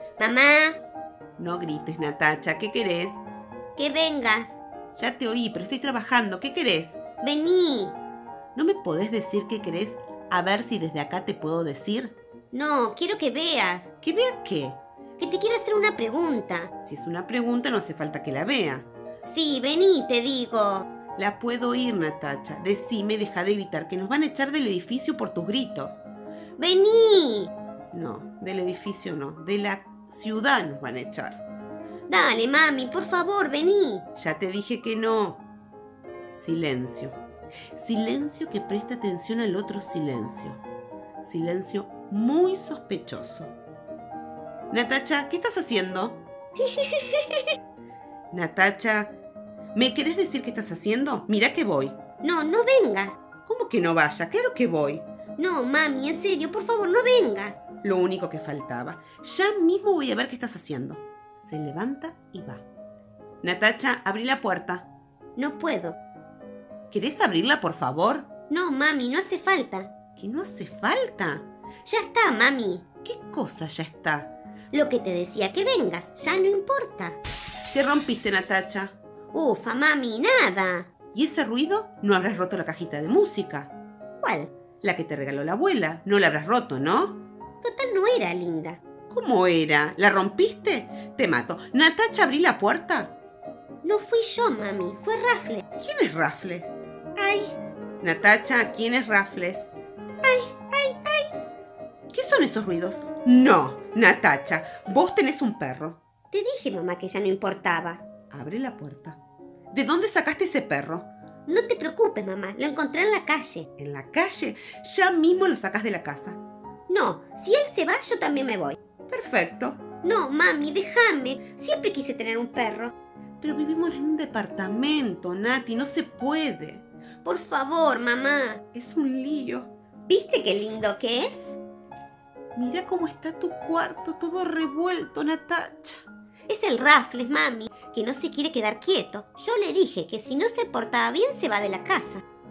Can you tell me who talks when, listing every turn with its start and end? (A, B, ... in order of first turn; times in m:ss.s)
0:00.2-0:00.8 A
0:01.4-0:03.2 B
0:03.8-0:04.6 A
0:05.0-0:07.0 B
0:07.2-0:08.0 A
0:08.6-0:12.2 B
0:12.5-0:13.9 A
0:14.0-0:14.8 B
0:15.2-0:16.7 A
0:16.8-0:18.9 B
0:19.3-0:20.9 A
0:21.2-0:26.0 B
0:26.6-0:27.5 A
0:27.9-0:31.4 B
0:32.1-0:34.1 A
0:34.2-0:35.4 B
0:36.3-0:37.2 B
0:37.7-0:40.6 B
0:41.2-0:43.6 B
0:44.7-0:46.2 B
0:46.6-0:47.6 A
0:48.3-0:49.2 B
0:49.7-0:52.0 B
0:52.2-0:53.2 A
0:53.4-0:55.0 B
0:55.4-0:57.6 A
0:57.8-1:02.6 B
1:03.4-1:04.9 B
1:05.4-1:06.0 A
1:06.9-1:08.3 B
1:08.5-1:09.9 A
1:10.2-1:11.5 B
1:11.8-1:12.9 A
1:13.0-1:14.3 B
1:14.7-1:17.2 A
1:17.7-1:19.0 B
1:19.3-1:20.9 A
1:21.1-1:23.7 B
1:24.2-1:24.5 A
1:24.8-1:27.2 B
1:27.6-1:28.8 A
1:29.1-1:33.2 B
1:33.8-1:35.6 A
1:35.8-1:36.7 B
1:37.2-1:37.6 A
1:38.0-1:39.7 B
1:40.2-1:41.3 A
1:42.1-1:46.0 B
1:46.3-1:48.1 A
1:48.3-1:49.2 B
1:49.7-1:51.1 B
1:51.5-1:53.7 A
1:53.8-1:56.4 B
1:56.9-1:58.8 A
1:59.1-1:59.8 B
2:00.0-2:02.9 A
2:03.4-2:06.9 B
2:07.2-2:08.6 A
2:08.7-2:09.7 B
2:10.1-2:11.6 A
2:12.6-2:16.0 B
2:16.5-2:22.2 A